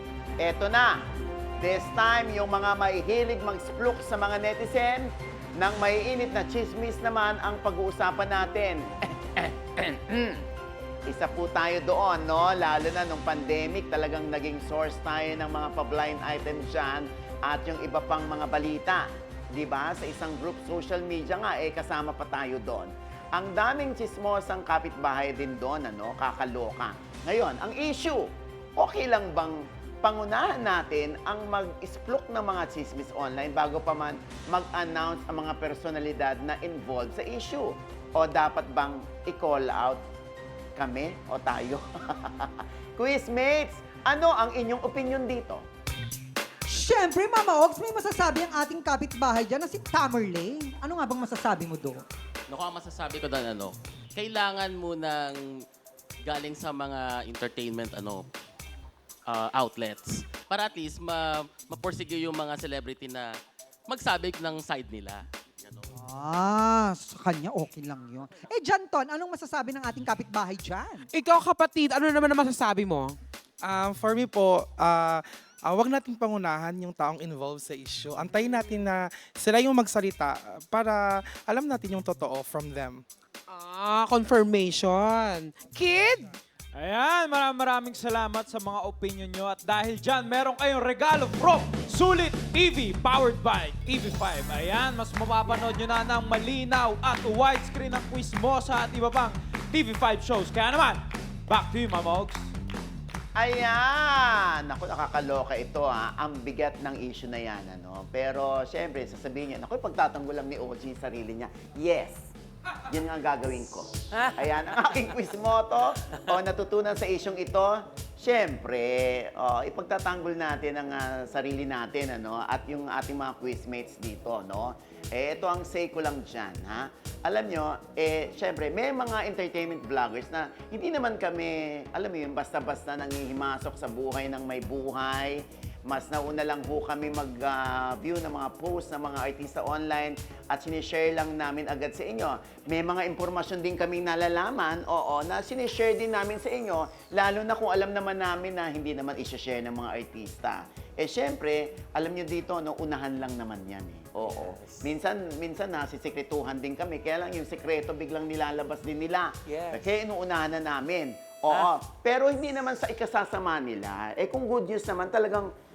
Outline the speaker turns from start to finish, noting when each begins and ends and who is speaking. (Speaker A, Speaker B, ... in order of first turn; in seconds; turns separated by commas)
Speaker A: 0.4-1.0, Speaker A: 1.6-10.4, Speaker A: 11.1-40.0, Speaker A: 40.8-45.6, Speaker B: 46.7-52.0, Speaker C: 52.5-55.4, Speaker C: 56.2-58.2, Speaker C: 59.3-63.3, Speaker C: 63.9-66.0, Speaker B: 66.0-71.0, Speaker D: 71.1-73.2, Speaker E: 73.6-83.0, Speaker D: 83.5-86.3, Speaker F: 86.7-102.5, Speaker A: 103.3-165.5